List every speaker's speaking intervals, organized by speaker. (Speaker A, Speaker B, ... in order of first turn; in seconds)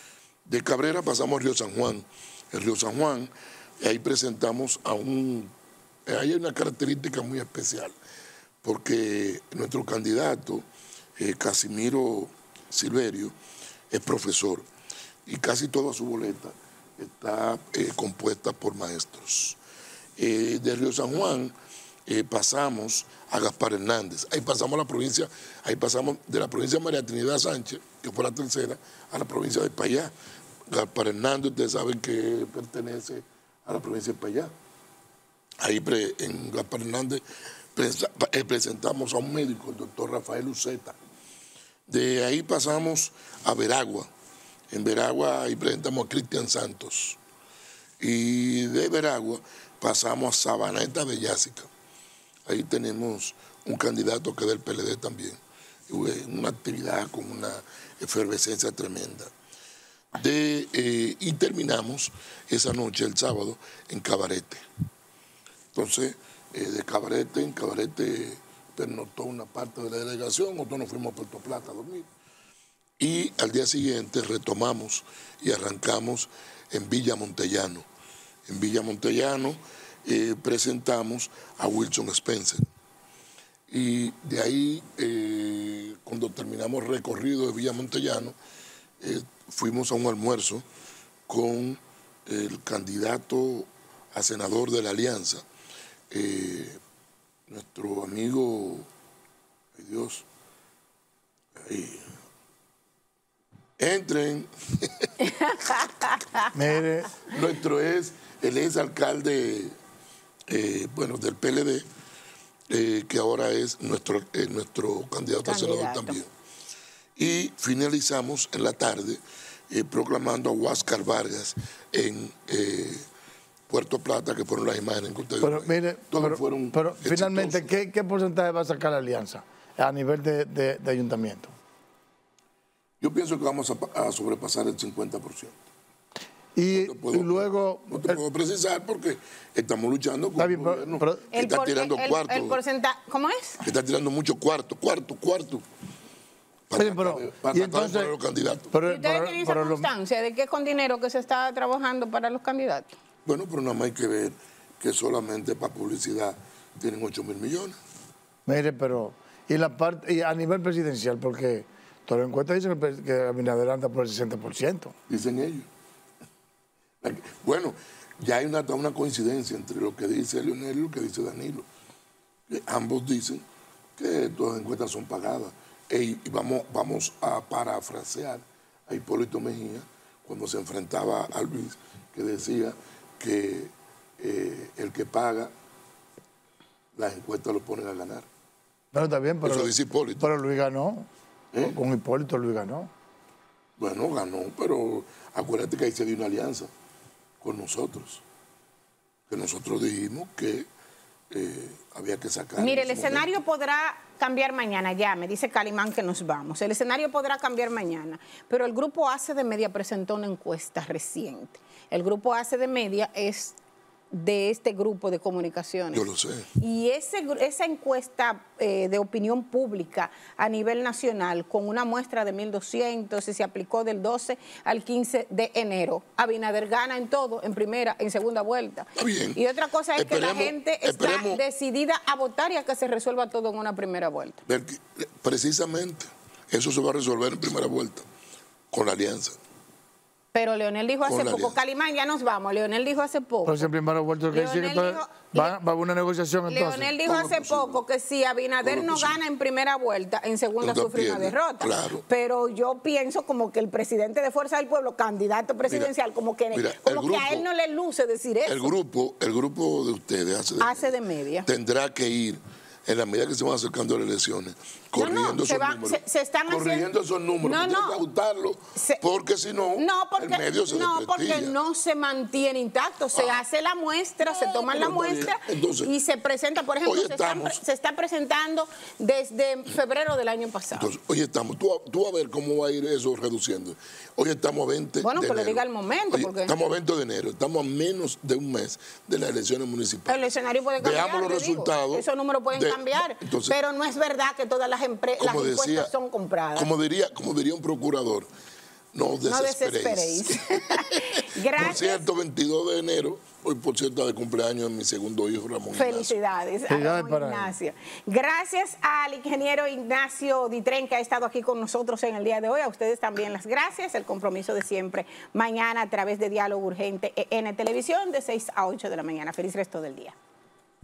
Speaker A: 0.5-5.5, 6.0-7.9, 8.6-10.6, 11.2-13.3, 13.9-14.7, 15.2-19.6, 20.2-21.5, 22.1-30.1, 30.7-34.5, 35.6-37.2, 37.7-41.0, 41.9-44.1, 44.7-47.2, 48.0-51.7, 52.5-59.3, 60.1-64.6, 65.7-72.1, 73.0-77.9, 78.5-82.6, 83.7-88.3, 89.0-90.6, 91.3-95.4, 96.1-96.8, 97.5-98.9, 99.8-100.2, 101.5-102.1, 103.8-105.1, 107.2-109.8, 110.5-111.9, 112.7-116.3, 117.2-123.0, 123.7-127.7, 133.0-135.6, 136.7-142.6, 143.6-145.6, 146.7-148.7, 153.2-157.8, 165.1-165.7, 167.0-171.7, 172.5-173.4, 174.0-185.5, 186.9-188.3, 189.4-190.3, 193.8-196.7, 197.4-198.2, 199.3-200.7, 201.3-203.3, 215.9-216.5, 228.9-229.4, 229.9-231.4, 234.4-238.0, 238.7-239.4, 241.0-241.6, 247.0-247.8, 248.6-249.2, 250.6-252.0, 255.7-255.9, 256.5-257.4, 258.4-271.5, 273.1-273.4, 274.2-275.9, 276.8-277.6, 280.7-293.6, 295.2-295.9, 296.5-298.3, 298.9-306.2
Speaker B: 105.2-106.5, 115.4-116.2, 141.3-143.6, 148.8-152.9, 202.6-213.6, 214.1-234.4, 240.3-243.7, 244.3-245.6, 246.5-258.7, 260.6-261.5, 264.9-266.9, 267.4-268.0, 268.8-269.0, 269.8-280.9, 285.0-286.5, 290.1-296.7, 299.3-302.0, 305.7-320.1
Speaker C: 106.5-107.2, 125.4-131.5, 136.6-138.2, 140.4-141.3, 146.7-148.1, 148.7-149.9, 158.4-164.9, 188.9-191.1, 191.6-192.9, 243.4-246.9, 306.7-307.5